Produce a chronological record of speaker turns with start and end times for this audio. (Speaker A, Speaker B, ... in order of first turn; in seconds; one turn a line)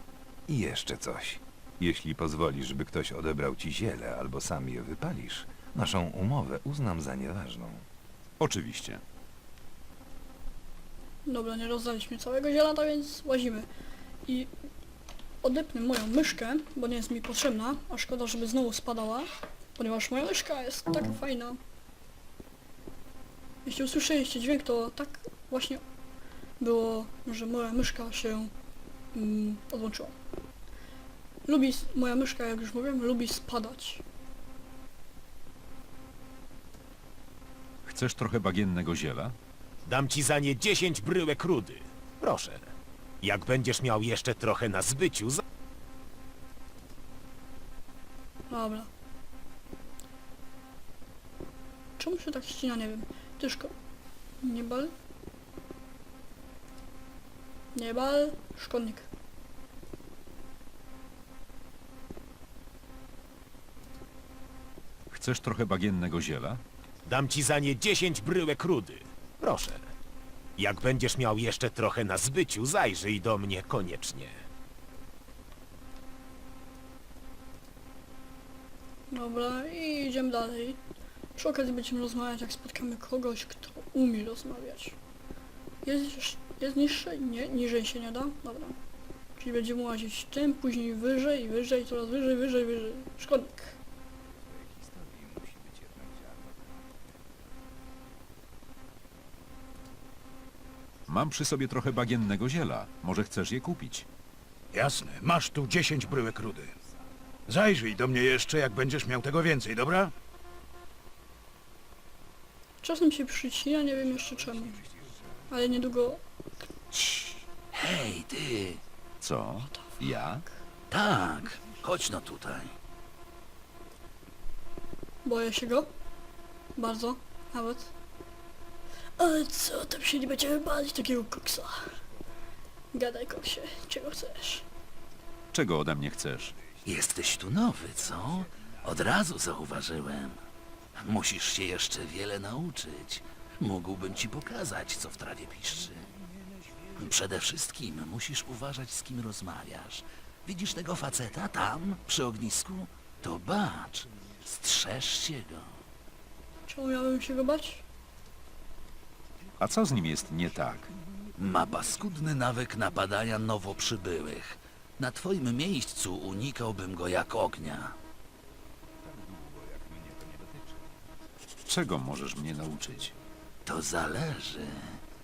Speaker A: 0.5-7.8
Speaker B: 8.4-9.0
Speaker C: 11.2-13.7
Speaker C: 15.4-21.6
Speaker C: 23.6-25.8
Speaker C: 26.6-28.5
Speaker C: 29.1-30.1
Speaker C: 31.5-34.0
Speaker B: 37.9-39.4
Speaker D: 39.9-42.7
Speaker D: 43.2-45.4
Speaker C: 48.5-48.9
Speaker C: 52.0-53.7
Speaker C: 54.4-54.9
Speaker C: 57.7-59.1
Speaker B: 65.1-66.6
Speaker D: 67.1-69.8
Speaker D: 70.6-74.3
Speaker C: 79.1-80.8
Speaker C: 81.4-85.0
Speaker C: 85.8-88.8
Speaker C: 89.4-93.8
Speaker A: 94.3-97.2
Speaker B: 101.1-104.1
Speaker E: 104.7-106.7
Speaker E: 107.5-110.1
Speaker C: 112.8-114.8
Speaker C: 115.5-116.2
Speaker F: 117.0-118.8
Speaker B: 119.2-120.4
Speaker C: 119.6-120.4
Speaker F: 120.9-122.7
Speaker C: 125.2-125.9
Speaker C: 126.8-127.9
Speaker C: 129.2-131.9
Speaker C: 132.9-134.6
Speaker B: 135.5-136.5
Speaker A: 136.5-138.8
Speaker F: 136.8-140.4
Speaker F: 141.0-146.1
Speaker A: 144.4-145.2
Speaker F: 147.0-155.7
Speaker C: 156.7-157.8
Speaker B: 159.6-160.9
Speaker F: 161.4-167.9
Speaker A: 169.0-170.9
Speaker B: 171.7-173.1
Speaker F: 173.7-174.8